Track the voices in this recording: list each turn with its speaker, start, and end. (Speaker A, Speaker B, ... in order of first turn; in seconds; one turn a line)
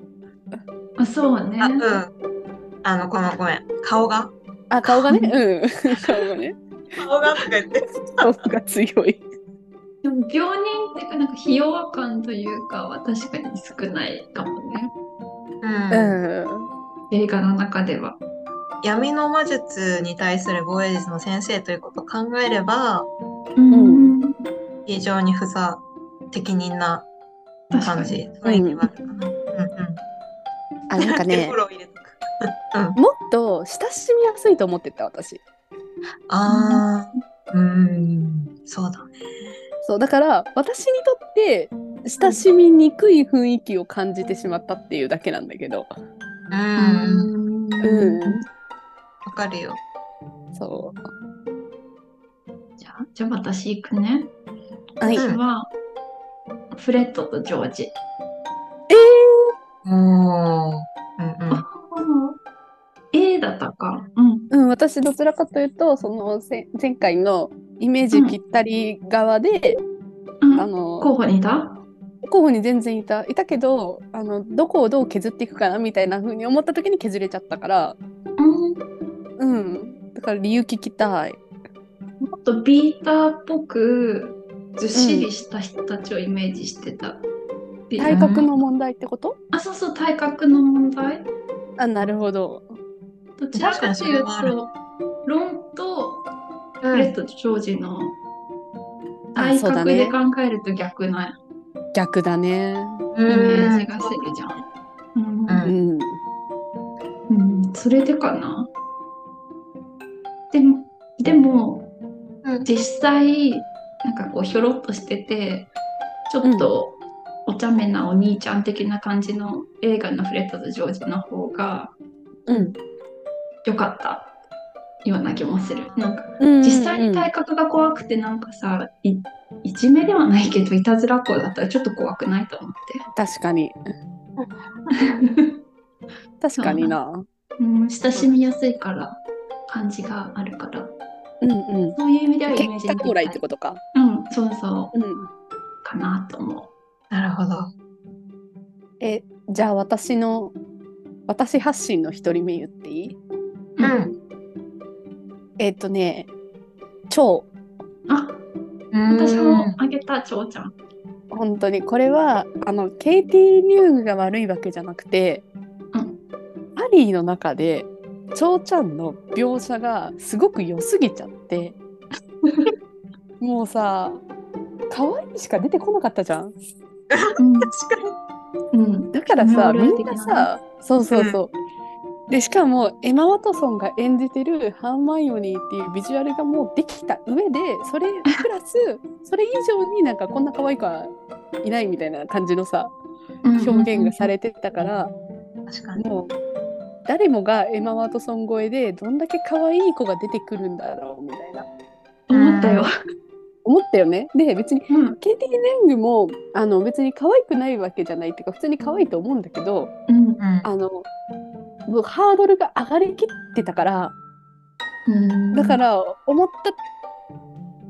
Speaker A: 1.0-1.8
Speaker B: 1.6-2.1
Speaker B: 2.8-4.3
Speaker C: 4.7-6.6
Speaker B: 4.9-5.2
Speaker B: 7.0-8.5
Speaker C: 8.2-9.2
Speaker A: 10.0-14.9
Speaker B: 15.6-16.2
Speaker C: 15.9-16.7
Speaker A: 17.1-18.2
Speaker B: 18.8-23.1
Speaker A: 23.6-24.5
Speaker C: 23.7-24.2
Speaker B: 24.9-27.1
Speaker A: 27.7-28.2
Speaker B: 27.7-30.0
Speaker C: 28.4-28.8
Speaker C: 30.9-31.6
Speaker B: 31.0-33.0
Speaker C: 33.0-35.4
Speaker B: 36.3-39.2
Speaker A: 36.5-36.9
Speaker C: 39.8-45.9
Speaker B: 46.5-47.3
Speaker A: 46.8-48.4
Speaker C: 47.8-48.4
Speaker B: 49.2-49.8
Speaker C: 50.5-51.0
Speaker A: 52.8-54.3
Speaker A: 55.0-55.7
Speaker B: 55.2-55.4
Speaker A: 56.7-58.0
Speaker C: 58.9-59.5
Speaker B: 59.8-61.6
Speaker A: 61.5-62.4
Speaker A: 63.1-64.5
Speaker C: 64.5-69.8
Speaker A: 68.1-68.4
Speaker A: 70.4-71.8
Speaker C: 70.6-71.1
Speaker C: 72.2-78.0
Speaker A: 78.4-78.8
Speaker C: 79.4-81.4
Speaker A: 82.2-87.2
Speaker C: 85.0-85.3
Speaker A: 87.9-88.5
Speaker C: 88.0-89.4
Speaker B: 88.1-88.5
Speaker A: 89.5-91.3
Speaker C: 91.8-92.8
Speaker A: 93.4-94.7
Speaker B: 93.5-94.6
Speaker A: 95.2-96.3
Speaker B: 96.8-97.1
Speaker A: 96.8-98.2
Speaker C: 99.3-100.2
Speaker A: 99.3-101.4
Speaker C: 101.9-103.7
Speaker B: 103.1-104.2
Speaker A: 103.3-104.6
Speaker A: 105.2-105.6
Speaker B: 105.5-105.7
Speaker C: 105.6-106.2
Speaker A: 107.3-108.7
Speaker A: 110.5-111.9
Speaker A: 112.7-115.7
Speaker A: 116.3-121.9
Speaker C: 116.4-116.7
Speaker C: 122.5-122.7
Speaker A: 123.7-124.3
Speaker A: 125.0-133.1
Speaker C: 126.4-127.3
Speaker C: 133.1-133.8
Speaker A: 134.9-135.6
Speaker C: 136.4-137.2
Speaker A: 136.6-136.9
Speaker A: 137.6-141.0
Speaker C: 141.4-142.0
Speaker A: 141.9-143.4
Speaker C: 142.5-143.8
Speaker A: 143.9-145.0
Speaker C: 144.9-145.3
Speaker A: 145.8-146.7
Speaker B: 147.1-147.7
Speaker C: 149.0-150.6
Speaker C: 151.3-153.2
Speaker B: 153.8-154.2
Speaker C: 155.6-156.3
Speaker C: 157.1-157.5
Speaker A: 158.1-158.4
Speaker B: 158.9-159.8
Speaker A: 159.1-160.8
Speaker C: 161.3-165.4
Speaker A: 165.9-166.2
Speaker C: 166.8-171.8
Speaker A: 172.4-172.7
Speaker C: 173.4-174.2
Speaker C: 174.9-176.5
Speaker B: 177.1-178.2
Speaker A: 177.4-177.7
Speaker A: 178.7-180.5
Speaker C: 179.1-181.5
Speaker B: 181.1-181.4
Speaker C: 182.3-191.1
Speaker C: 191.6-192.9
Speaker A: 193.4-194.3
Speaker C: 193.6-195.1
Speaker B: 195.7-196.0
Speaker C: 196.0-196.3
Speaker C: 197.1-201.7
Speaker A: 202.3-202.9
Speaker B: 202.3-202.9
Speaker C: 203.7-209.9
Speaker A: 204.9-205.2
Speaker A: 210.1-210.4
Speaker B: 210.4-210.7
Speaker C: 210.6-211.1
Speaker C: 211.9-214.2
Speaker A: 215.1-215.8
Speaker C: 215.5-216.8